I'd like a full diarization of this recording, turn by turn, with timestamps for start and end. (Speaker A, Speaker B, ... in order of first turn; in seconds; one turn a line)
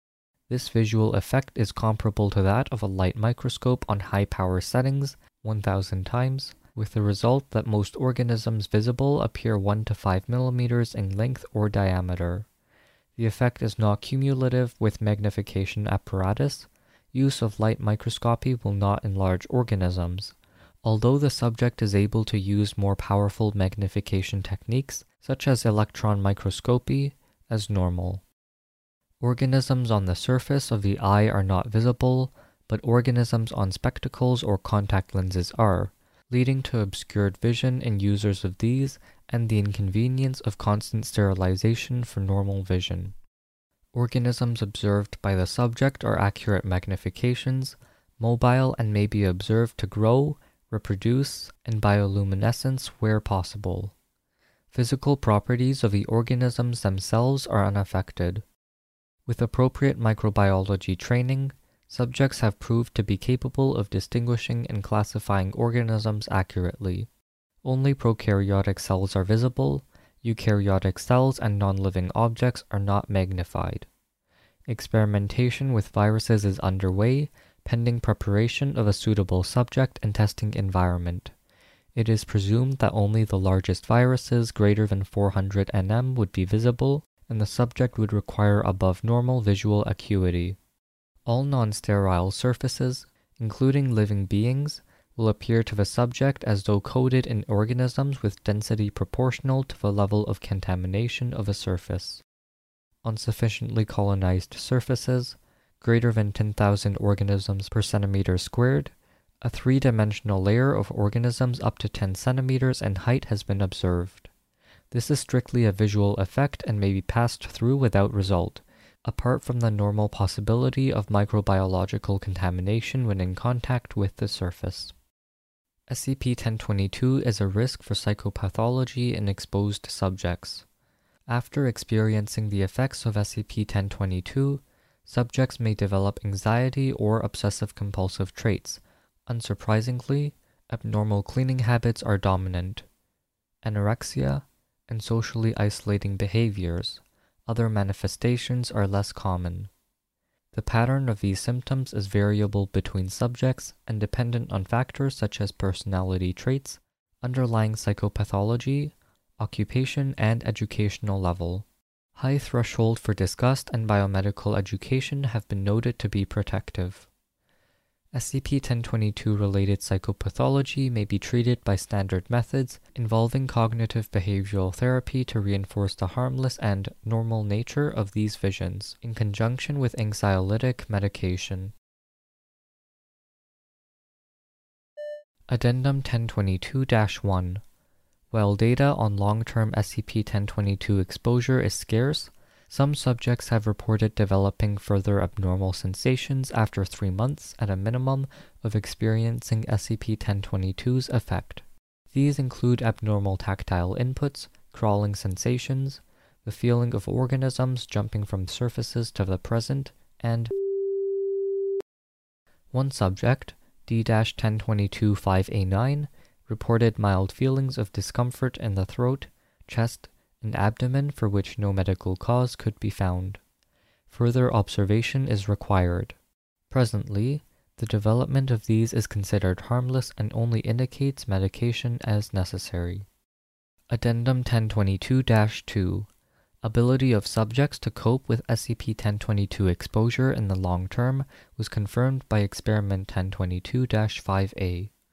Speaker A: 0.5-12.5
Speaker A: 13.2-28.2
Speaker A: 29.2-43.1
Speaker A: 43.9-53.9
Speaker A: 54.7-58.4
Speaker A: 59.3-67.1
Speaker A: 67.6-73.9
Speaker A: 74.7-81.3
Speaker A: 82.0-90.6
Speaker A: 91.3-102.2
Speaker A: 103.0-114.3
Speaker A: 114.9-124.9
Speaker A: 125.9-130.7
Speaker A: 131.3-142.8
Speaker A: 143.6-149.7
Speaker A: 150.5-161.7
Speaker A: 162.2-167.1
Speaker A: 168.1-181.7
Speaker A: 185.5-187.6
Speaker A: 188.3-210.5
Speaker A: 212.7-223.4
Speaker A: 224.1-226.2
Speaker A: 226.7-233.1
Speaker A: 233.9-236.1
Speaker A: 236.6-244.9